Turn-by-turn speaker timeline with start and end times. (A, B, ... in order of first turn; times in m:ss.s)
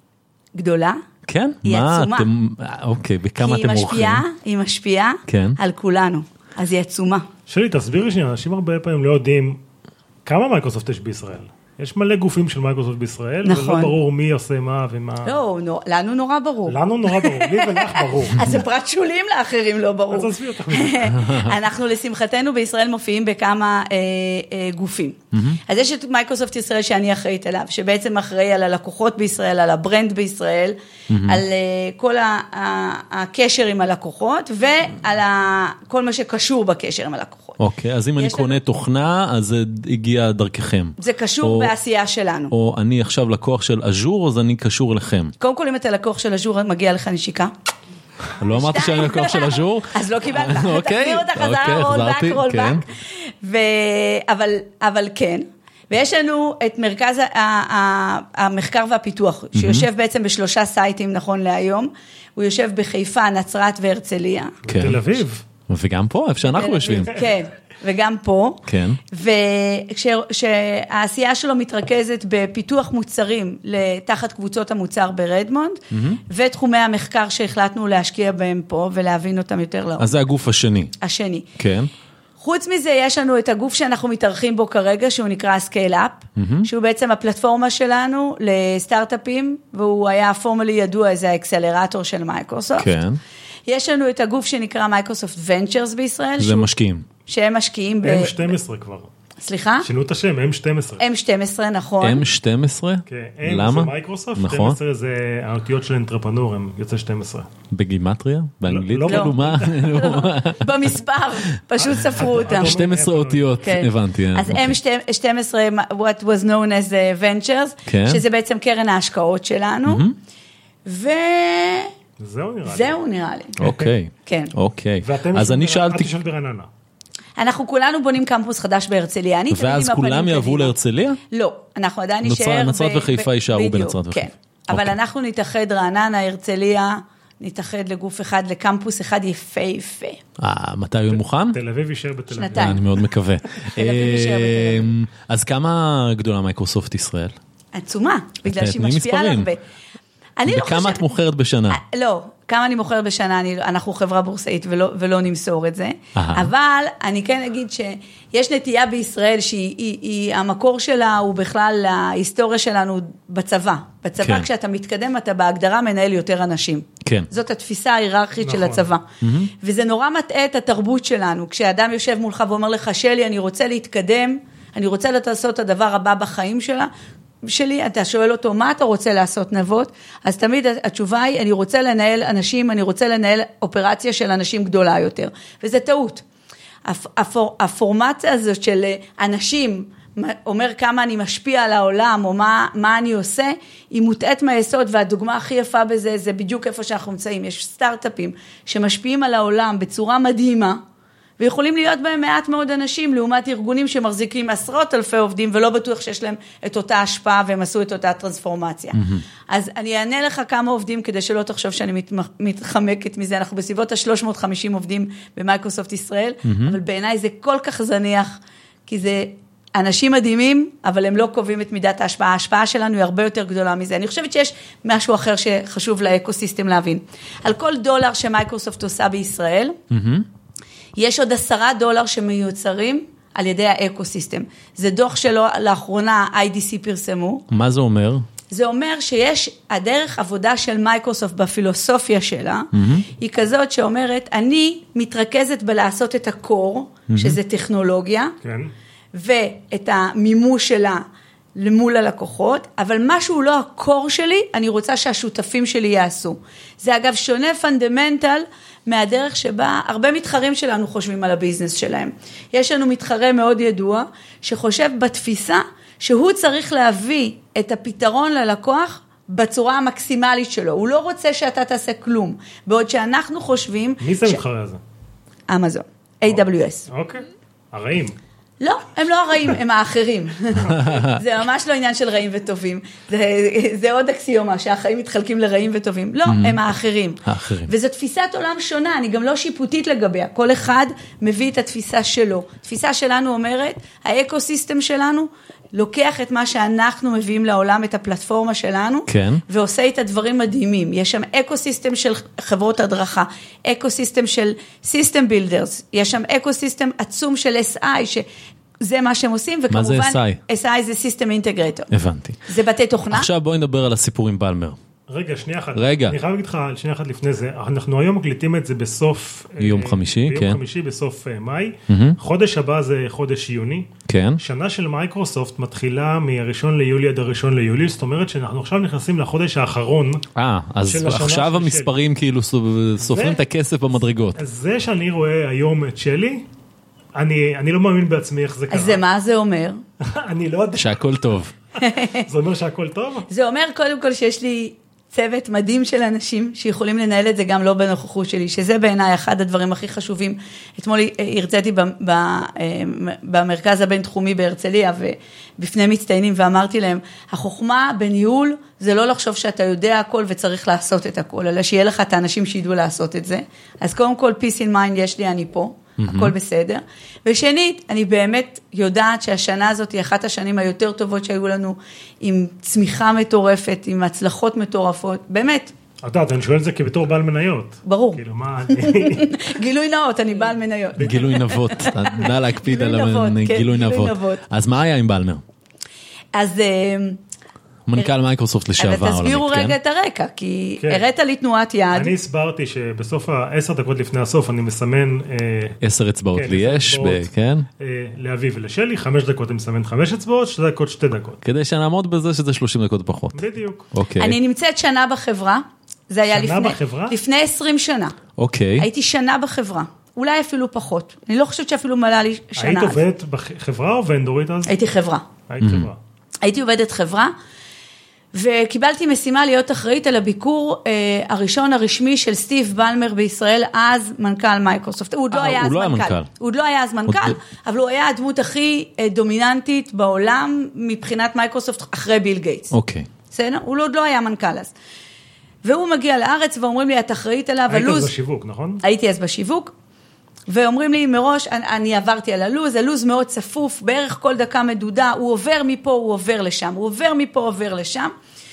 0:00.5-0:01.0 A
0:01.2-0:04.2 B
0:01.6-0:02.3 A
0:03.4-0:07.3 A
0:05.3-0:05.6 B
0:07.5-0:09.6 C
0:10.2-0:15.4 C
0:13.4-0:13.9 A
0:15.2-0:37.6 A
0:16.7-0:18.6 C
0:20.1-0:21.2 C
0:21.1-0:21.5 B
0:25.3-0:25.6 B
0:31.1-0:31.4 B
0:37.6-0:41.7 B
0:38.2-0:38.6 A
0:41.0-0:42.5 A
0:42.5-0:45.3 B
0:45.4-0:47.5 A
0:48.4-0:52.8 B
0:48.4-1:04.6 A
0:59.5-0:59.9 B
1:04.6-1:05.4 C
1:04.7-1:05.0 B
1:05.7-1:07.1 B
1:06.5-1:20.2 A
1:08.7-1:09.0 B
1:15.9-1:16.2 B
1:20.0-1:20.9 B
1:21.0-1:21.5 A
1:21.6-1:21.9 B
1:22.4-1:33.0 A
1:26.4-1:26.7 B
1:32.8-1:33.2 B
1:33.7-1:36.7 A
1:36.4-1:37.0 B
1:37.2-1:38.5 A
1:38.0-1:39.1 C
1:39.4-1:39.9 A
1:39.8-1:41.0 C
1:41.0-1:42.2 A
1:42.0-1:44.8 B
1:43.1-1:47.5 C
1:47.7-1:50.7 B
1:48.6-1:50.1 C
1:49.0-1:52.8 A
1:51.8-1:53.5 C
1:52.3-1:54.8 B
1:53.6-2:00.1 A
1:57.8-1:58.2 B
1:59.8-2:00.1 B
2:00.8-2:01.9 A
2:02.2-2:03.0 C
2:02.6-2:03.6 A
2:03.6-2:06.1 B
2:03.6-2:03.9 C
2:04.2-2:04.5 A
2:05.0-2:06.7 C
2:07.4-2:10.7 A
2:09.5-2:11.2 B
2:11.3-2:20.2 A
2:12.2-2:14.9 B
2:20.4-2:21.6 B
2:21.1-2:22.9 C
2:22.3-2:22.8 A
2:22.5-2:27.4 B
2:23.7-2:24.9 A
2:27.7-2:29.6 A
2:28.4-2:29.5 B
2:30.4-2:31.1 A
2:30.5-2:31.8 B
2:31.7-2:56.9 A
2:36.1-2:36.5 B
2:44.2-2:44.5 B
2:47.0-2:47.3 B
2:48.4-2:48.9 C
2:49.2-2:49.5 B
2:57.4-3:06.2 A
3:06.8-3:20.8 A
3:21.4-3:49.8 A
3:28.9-3:29.2 B
3:36.4-3:36.8 B
3:49.9-3:50.3 B
3:51.0-3:57.5 A
3:57.5-3:58.3 B
3:58.5-4:08.4 A
4:02.7-4:03.0 B
4:07.1-4:07.4 B
4:08.4-4:08.7 C
4:09.1-4:11.0 A
4:11.6-4:34.4 A
4:34.0-4:34.8 C
4:35.5-4:36.9 A
4:36.9-4:38.2 C
4:38.6-5:08.2 A
4:40.8-4:41.1 B
4:46.2-4:46.6 B
4:47.2-4:47.7 B
4:59.1-4:59.4 B
5:08.8-5:11.9 A
5:09.7-5:10.4 B
5:11.9-5:12.4 B
5:12.4-5:13.3 A
5:13.1-5:14.8 B
5:15.1-5:30.2 C
5:15.7-5:16.2 B
5:19.6-5:20.6 B
5:21.9-5:22.2 B
5:24.0-5:24.4 B
5:30.4-5:34.4 B
5:30.9-5:31.9 C
5:33.1-5:33.4 C
5:34.4-5:36.4 C
5:37.1-5:39.0 C
5:38.7-5:39.8 A
5:40.0-5:41.0 C
5:40.7-5:41.5 B
5:41.8-5:42.3 A
5:42.1-5:43.3 C
5:43.3-6:15.7 A
6:06.0-6:06.3 B
6:16.0-6:19.5 C
6:17.8-6:24.4 A
6:21.0-6:21.3 C
6:21.0-6:25.4 B
6:26.3-6:27.2 A
6:27.9-6:29.8 B
6:28.8-6:32.1 A
6:31.9-6:35.8 C
6:35.8-6:37.7 B
6:36.3-6:37.3 C
6:37.8-6:41.4 C
6:41.4-6:43.4 B
6:43.3-6:43.9 C
6:43.9-6:44.4 B
6:44.2-6:48.2 A
6:46.3-6:47.2 C
6:48.4-6:48.8 B
6:48.8-6:53.0 A
6:52.6-6:54.7 C
6:54.6-6:55.2 A
6:55.5-6:56.0 C
6:55.6-6:55.9 B
6:56.4-6:57.3 A
6:58.3-7:12.7 A
7:05.3-7:06.3 B
7:07.1-7:07.4 B
7:12.7-7:13.1 B
7:13.3-7:14.7 A
7:15.6-7:18.1 A
7:17.7-7:18.8 C
7:18.8-7:19.7 A
7:20.5-7:28.1 A